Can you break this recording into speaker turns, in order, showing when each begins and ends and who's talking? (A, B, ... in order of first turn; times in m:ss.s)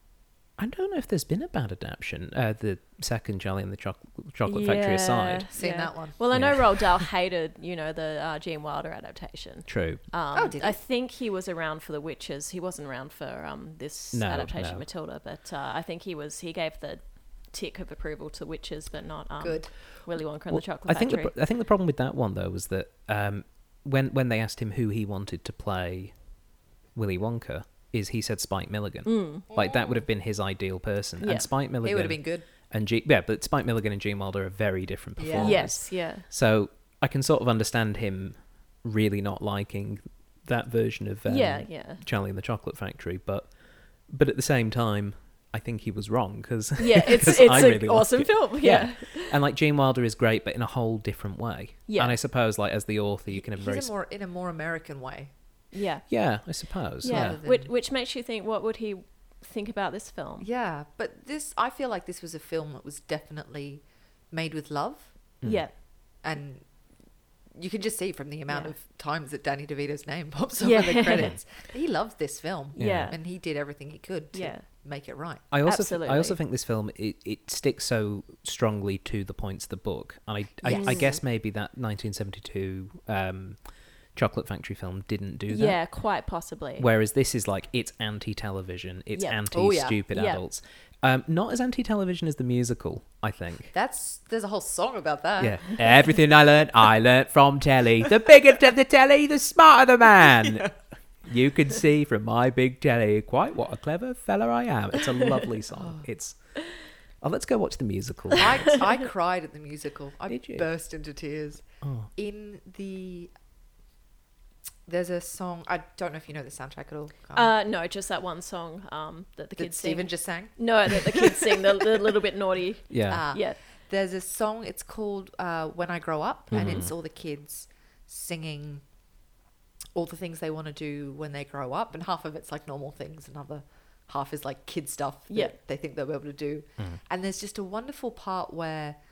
0:00.6-0:05.4 A
0:04.5-0:21.3 B
0:05.5-0:06.5 C
0:06.3-0:06.7 A
0:09.7-0:10.0 A
0:10.3-0:10.8 C
0:14.1-0:14.8 A
0:19.4-0:19.7 C
0:20.5-0:26.1 A
0:26.9-0:43.5 A
0:29.0-0:29.5 B
0:29.5-0:30.0 C
0:31.2-0:31.5 B
0:31.8-0:32.4 C
0:35.2-0:35.7 C
0:35.4-0:36.2 B
0:41.2-0:42.0 B
0:44.1-0:53.9 A
0:46.8-0:49.4 B
0:51.9-0:52.2 B
0:53.3-0:55.3 C
0:55.7-0:56.0 B
0:56.1-0:57.4 A
0:57.0-1:00.5 B
0:57.0-0:57.7 C
1:00.4-1:05.1 C
1:05.4-1:05.7 A
1:05.4-1:05.7 B
1:06.2-1:06.6 C
1:07.5-1:15.4 C
1:08.5-1:08.7 B
1:10.6-1:11.3 B
1:12.8-1:13.2 B
1:12.8-1:13.1 A
1:14.3-1:14.6 B
1:15.5-1:23.6 A
1:15.6-1:16.4 B
1:20.6-1:21.2 C
1:20.7-1:21.1 B
1:24.1-1:25.8 A
1:25.5-1:26.9 B
1:26.8-1:33.7 A
1:29.1-1:29.4 B
1:29.5-1:30.0 C
1:30.1-1:30.4 B
1:33.7-1:35.6 C
1:35.4-1:40.7 A
1:40.4-1:40.7 C
1:41.2-1:46.4 A
1:47.2-1:48.6 A
1:48.4-1:51.6 C
1:50.3-1:50.7 A
1:51.8-1:52.1 A
1:52.2-1:53.3 C
1:54.8-1:57.5 C
1:57.3-2:03.6 B
1:59.6-2:02.0 C
2:02.9-2:03.2 A
2:03.1-2:08.8 C
2:06.5-2:06.9 A
2:06.5-2:06.8 B
2:09.9-2:19.0 C